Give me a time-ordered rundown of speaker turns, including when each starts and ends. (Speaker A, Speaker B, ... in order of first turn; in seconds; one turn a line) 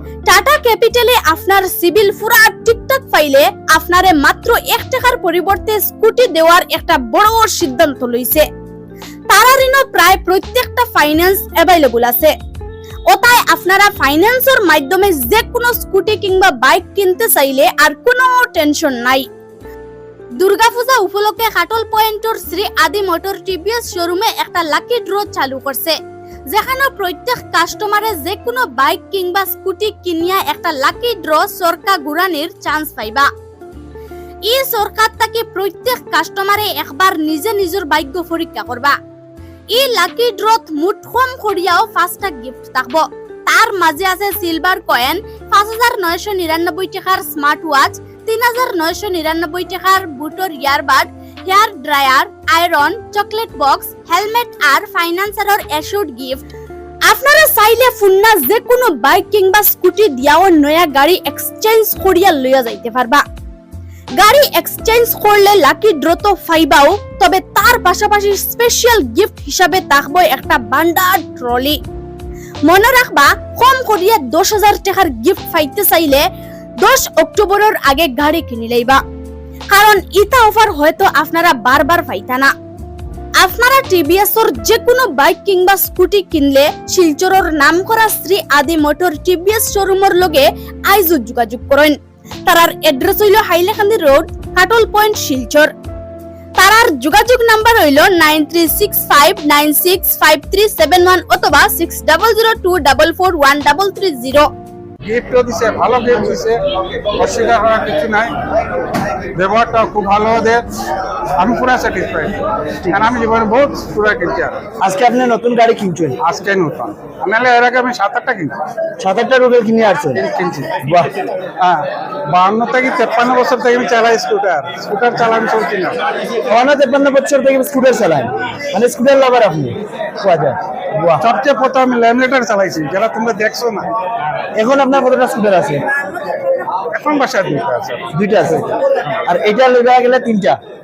Speaker A: 0.3-8.5
Speaker A: 9.3-12.3
Speaker A: 13.1-19.3
Speaker A: 20.4-26.0
Speaker A: 26.5-33.3
Speaker A: 34.5-39.0
Speaker A: 39.7-56.5
Speaker A: 57.0-63.2
Speaker A: 64.2-71.8
Speaker A: 72.6-76.3
Speaker A: 76.8-79.0
Speaker A: 79.7-82.5
Speaker A: 83.4-95.7
Speaker A: 96.6-104.5
Speaker B: 105.0-106.6
Speaker B: 107.2-108.4
Speaker B: 109.3-110.7
Speaker B: 111.4-112.4
Speaker B: 112.9-114.7
Speaker C: 114.8-116.2
Speaker B: 116.2-118.6
Speaker C: 119.0-120.2
Speaker B: 120.1-120.8
Speaker C: 120.8-121.1
Speaker B: 121.6-126.0
Speaker C: 126.5-131.2
Speaker B: 131.2-133.9
Speaker C: 134.6-135.8
Speaker B: 136.9-138.1
Speaker C: 138.1-140.6